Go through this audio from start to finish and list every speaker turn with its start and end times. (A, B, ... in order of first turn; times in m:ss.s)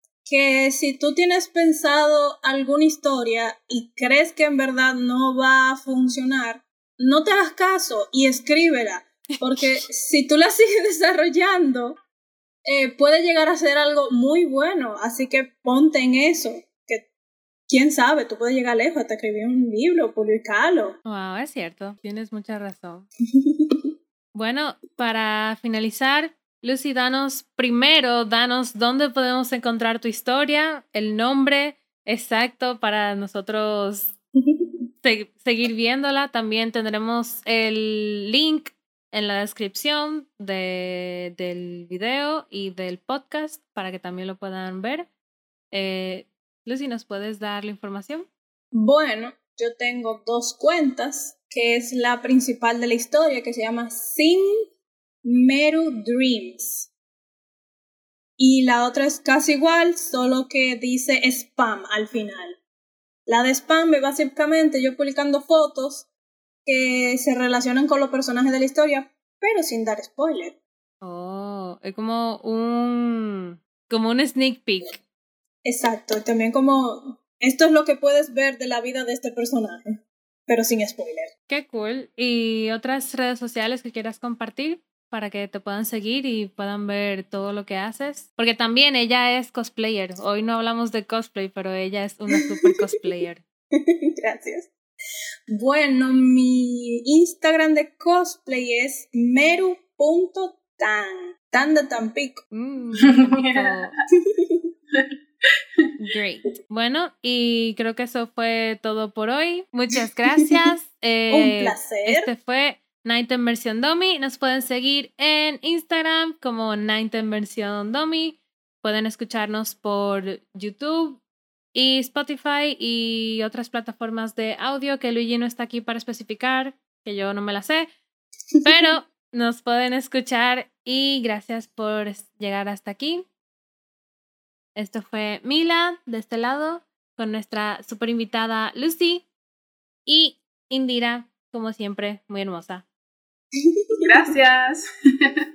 0:00.2-0:12.0 A
0:09.4-0:09.8 B
0:12.6-0:17.1 A
0:17.7-0:21.0 A
0:21.1-0:23.1 B
0:23.4-0:23.9 A
0:24.3-0:34.2 B
0:35.0-0:45.1 B
0:45.7-0:48.3 B
0:48.7-0:54.7 A
0:55.2-0:56.9 A
0:58.4-1:02.6 A
1:03.3-1:06.1 A
1:06.6-1:10.6 A
1:11.0-1:15.0 B
1:15.6-1:21.3 A
1:21.5-1:33.4 B
1:32.4-1:32.7 A
1:33.8-1:34.7 A
1:35.5-1:42.4 A
1:42.5-1:44.0 B
1:43.1-1:43.7 C
1:44.2-1:44.7 A
1:46.0-2:01.2 B
1:51.3-1:52.3 A
2:01.7-2:07.9 B
2:08.6-2:08.9 A
2:08.6-2:13.2 B
2:14.8-2:19.3 B
2:20.1-2:22.8 B
2:23.6-2:24.2 A
2:24.0-2:25.4 C